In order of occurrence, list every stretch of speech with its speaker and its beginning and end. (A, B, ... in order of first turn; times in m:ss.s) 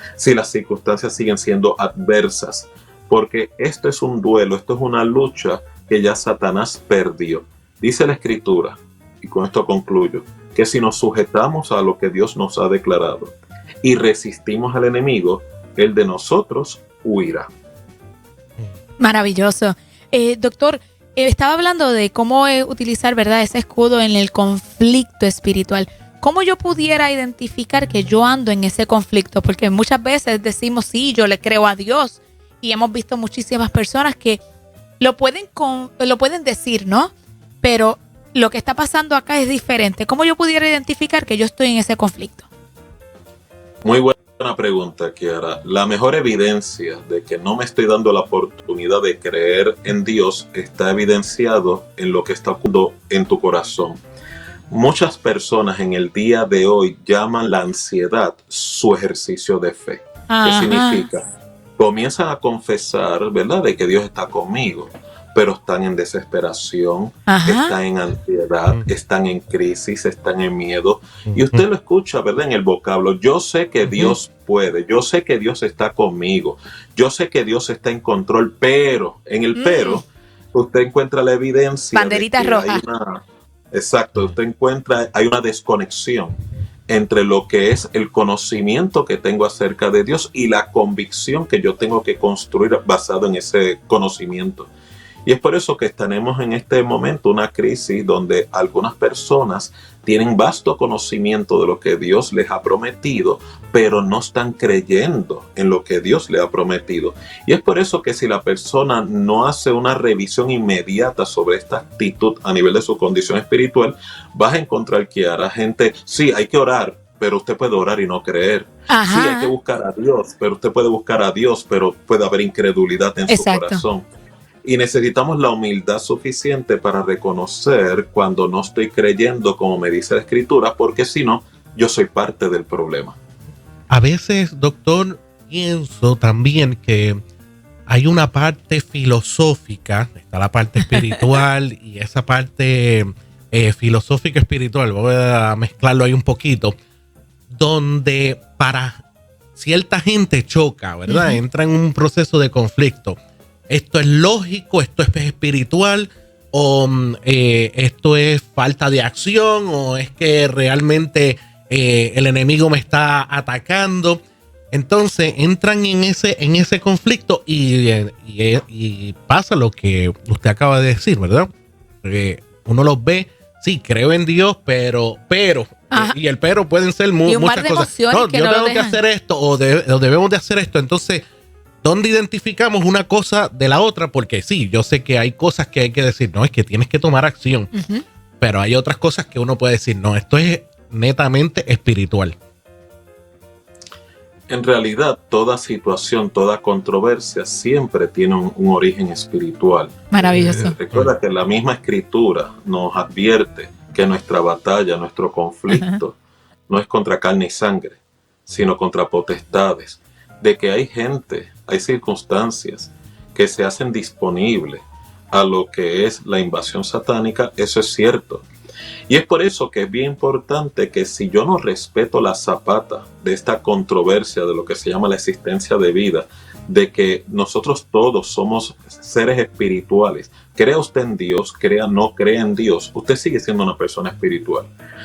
0:00.2-0:17.5 A
0:19.0-0:34.4 B
0:35.0-0:42.4 B
0:43.8-0:54.0 A
0:54.7-1:01.2 A
1:00.3-1:01.0 B
1:01.8-1:23.2 A
1:07.3-1:07.7 B
1:11.3-1:11.6 C
1:13.8-1:14.1 C
1:19.5-1:20.0 B
1:21.9-1:22.8 B
1:23.7-1:26.4 A
1:26.9-1:34.7 A
1:35.2-2:04.1 A
1:58.9-1:59.5 B
2:03.3-2:03.8 B
2:04.6-2:13.2 A
2:13.9-2:17.2 C
2:17.9-2:26.7 C
2:27.5-2:29.0 C
2:29.5-2:33.2 C
2:31.1-2:31.4 B
2:33.7-2:51.5 C
2:52.0-3:01.2 C
2:57.2-2:59.0 B
3:01.8-3:07.7 C
3:07.7-3:08.0 B
3:08.4-3:12.3 C
3:14.5-3:26.2 A
3:20.1-3:20.8 B
3:25.7-3:26.0 B
3:26.7-3:38.5 A
3:39.1-3:54.7 A